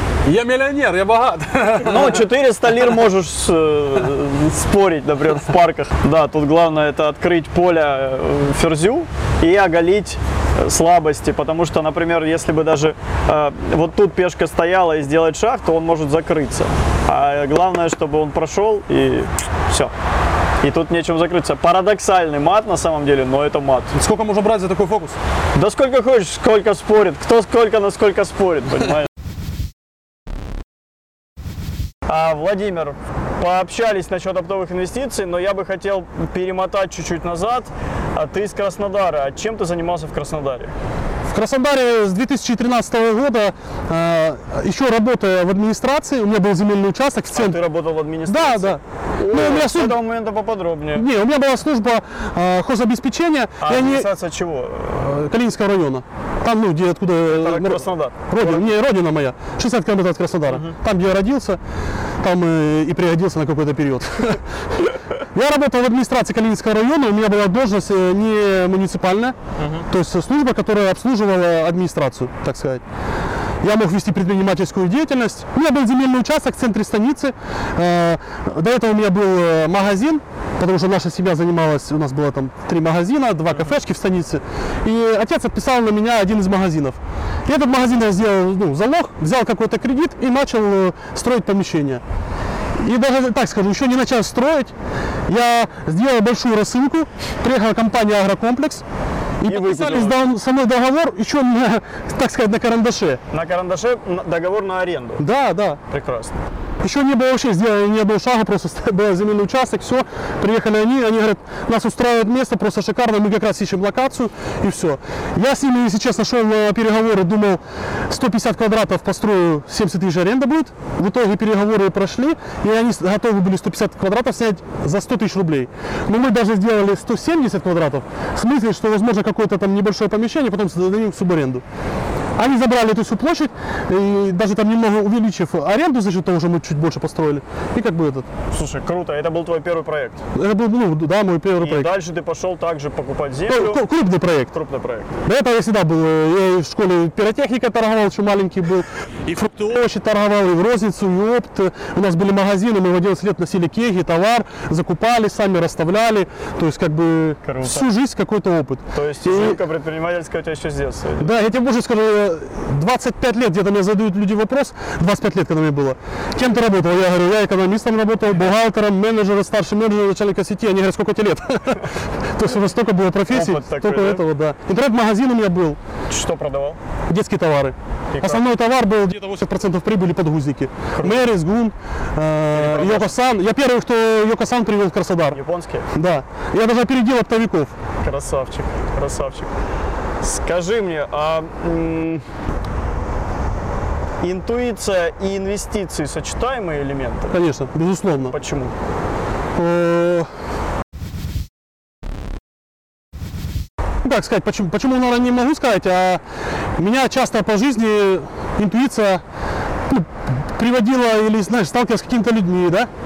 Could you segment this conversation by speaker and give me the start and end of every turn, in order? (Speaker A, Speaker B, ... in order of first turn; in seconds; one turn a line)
Speaker A: 0.2-2.3
Speaker B: 1.8-19.9
Speaker B: 20.6-24.0
Speaker A: 23.9-25.2
Speaker B: 25.6-29.1
Speaker B: 32.1-40.7
Speaker A: 41.3-47.6
Speaker B: 47.3-51.1
Speaker A: 48.3-50.0
Speaker A: 51.0-54.1
Speaker B: 53.6-55.1
Speaker A: 55.0-61.6
Speaker B: 57.3-58.7
Speaker B: 60.5-60.7
Speaker A: 62.2-72.8
Speaker B: 69.6-69.8
Speaker A: 73.6-92.0
Speaker A: 92.8-94.7
Speaker A: 95.3-98.8
Speaker A: 99.4-103.2
Speaker B: 99.5-100.2
Speaker B: 103.3-105.2
Speaker A: 105.2-105.8
Speaker B: 105.9-106.4
Speaker A: 106.8-131.6
Speaker A: 132.4-138.3
Speaker B: 138.5-140.2
Speaker A: 140.3-142.0
Speaker B: 141.6-143.8
Speaker A: 143.5-144.5
Speaker B: 144.5-145.2
Speaker A: 145.2-159.6
Speaker B: 157.4-157.9
Speaker B: 158.9-161.3
Speaker A: 161.2-175.8
Speaker B: 173.3-174.2
Speaker B: 176.1-176.8
Speaker A: 177.1-185.4
Speaker B: 178.1-178.4
Speaker B: 180.9-181.3
Speaker B: 182.5-183.2
Speaker B: 185.3-185.9
Speaker A: 185.9-187.7
Speaker B: 188.0-189.5
Speaker B: 190.2-192.2
Speaker B: 194.2-197.4
Speaker A: 197.3-198.3
Speaker B: 198.2-198.7
Speaker A: 199.6-200.3
Speaker A: 204.0-206.2
Speaker A: 206.8-209.2
Speaker A: 209.9-212.9